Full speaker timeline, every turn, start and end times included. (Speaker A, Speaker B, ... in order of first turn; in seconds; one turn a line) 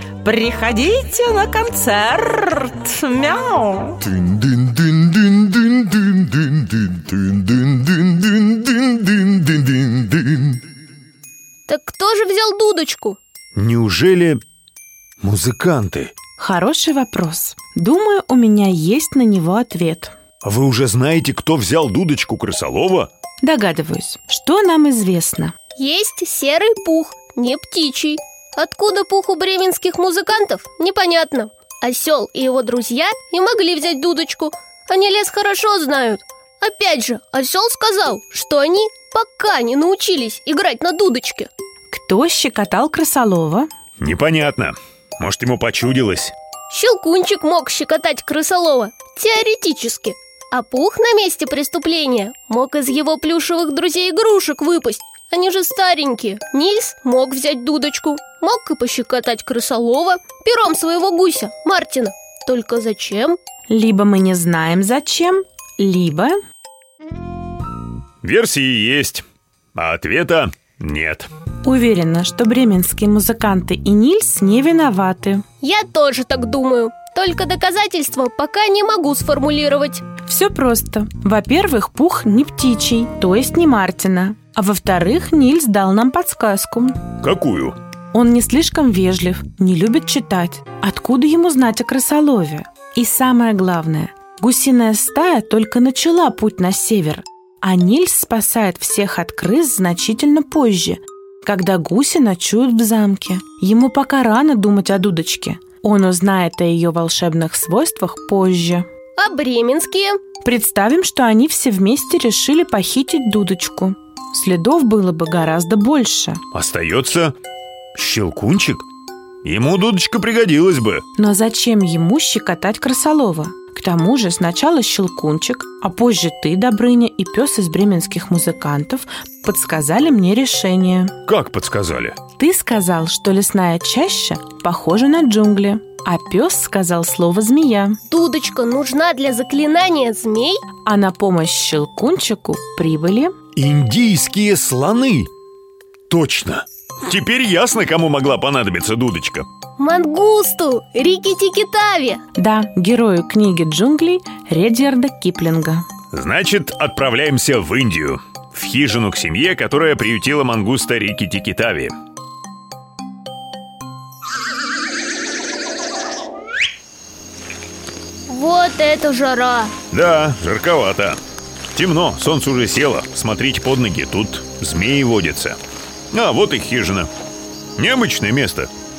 Speaker A: 0.2-4.0
Speaker B: 4.0-10.6
Speaker C: 11.7-13.2
Speaker D: 13.6-14.4
Speaker D: 15.2-16.1
Speaker E: 16.4-20.1
Speaker D: 20.4-23.1
Speaker E: 23.4-25.6
Speaker C: 25.8-41.5
Speaker E: 41.9-43.7
Speaker D: 44.0-46.3
Speaker C: 46.7-63.4
Speaker E: 63.7-66.4
Speaker D: 68.2-69.2
Speaker D: 69.8-71.3
Speaker E: 71.7-75.5
Speaker C: 75.6-80.0
Speaker E: 80.2-87.0
Speaker D: 87.2-87.8
Speaker E: 88.1-108.9
Speaker C: 109.2-110.2
Speaker E: 110.4-116.4
Speaker D: 116.5-117.3
Speaker D: 118.0-118.8
Speaker D: 119.4-121.0
Speaker E: 121.2-131.2
Speaker D: 131.3-132.2
Speaker E: 132.4-138.0
Speaker C: 138.1-140.6
Speaker E: 140.8-143.3
Speaker D: 143.6-145.3
Speaker D: 146.1-149.5
Speaker C: 149.8-152.2
Speaker E: 152.4-155.9
Speaker D: 156.1-161.9
Speaker C: 168.3-169.7
Speaker D: 169.9-171.2
Speaker D: 171.7-175.6
Speaker D: 176.1-177.1
Speaker D: 177.8-178.7